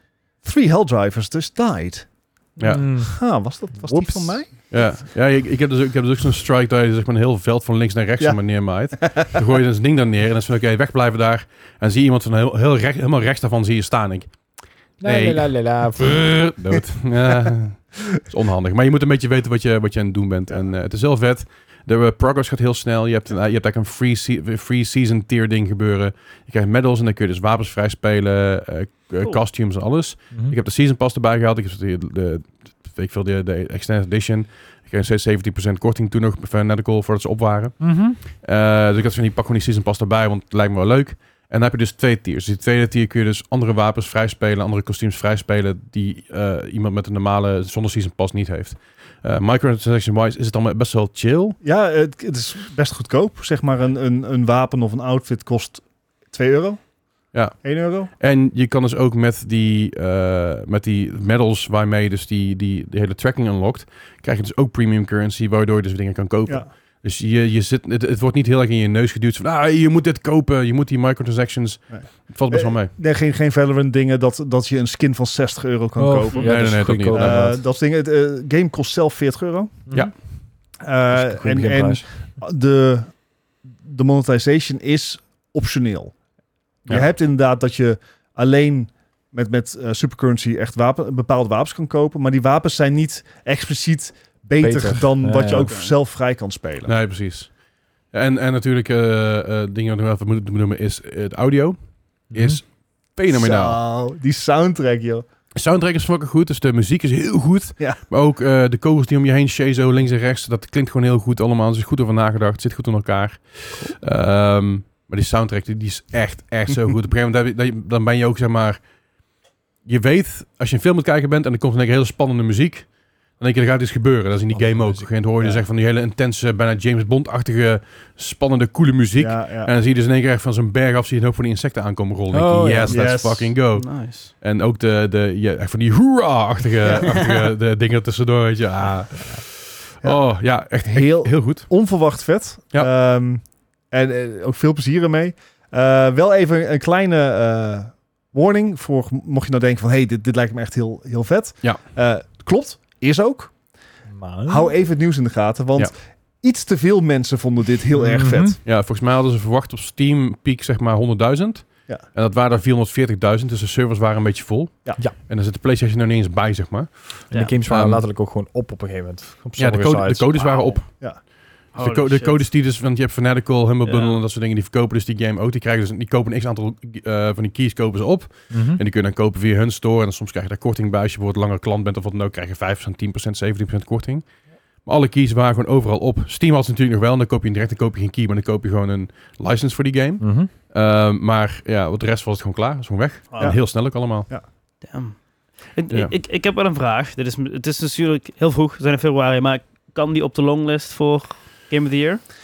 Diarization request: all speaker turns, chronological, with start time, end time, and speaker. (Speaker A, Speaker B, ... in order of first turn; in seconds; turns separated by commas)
Speaker A: 0.4-4.8, Speaker B: 2.6-2.9, Speaker C: 2.6-4.5, Speaker B: 4.7-51.6, Speaker A: 8.2-9.3, Speaker C: 15.0-16.5, Speaker C: 30.3-30.6, Speaker C: 37.8-38.2, Speaker A: 51.6-58.1, Speaker B: 57.3-72.9, Speaker A: 71.9-80.2, Speaker C: 76.0-77.6, Speaker B: 76.4-77.5, Speaker C: 79.9-82.2, Speaker B: 79.9-80.2, Speaker A: 80.8-86.2, Speaker A: 86.8-97.0, Speaker B: 86.9-87.1, Speaker C: 94.6-95.7, Speaker D: 95.5-95.9, Speaker B: 96.8-103.8, Speaker C: 102.3-102.6, Speaker A: 103.3-105.3, Speaker B: 105.5-119.0, Speaker B: 119.8-142.0, Speaker C: 124.5-125.2, Speaker A: 129.2-129.7, Speaker C: 132.3-133.1, Speaker A: 132.9-133.6, Speaker D: 133.8-134.3, Speaker A: 136.8-137.2, Speaker A: 140.0-153.6, Speaker C: 154.1-154.7, Speaker A: 154.5-158.6, Speaker C: 158.0-158.6, Speaker B: 158.6-168.1, Speaker C: 167.3-170.8, Speaker D: 167.3-167.6, Speaker B: 169.6-194.3, Speaker D: 171.7-172.5, Speaker D: 173.8-174.2, Speaker C: 178.5-178.8, Speaker C: 190.2-190.5, Speaker D: 193.3-193.6, Speaker A: 193.4-194.5, Speaker D: 194.8-202.3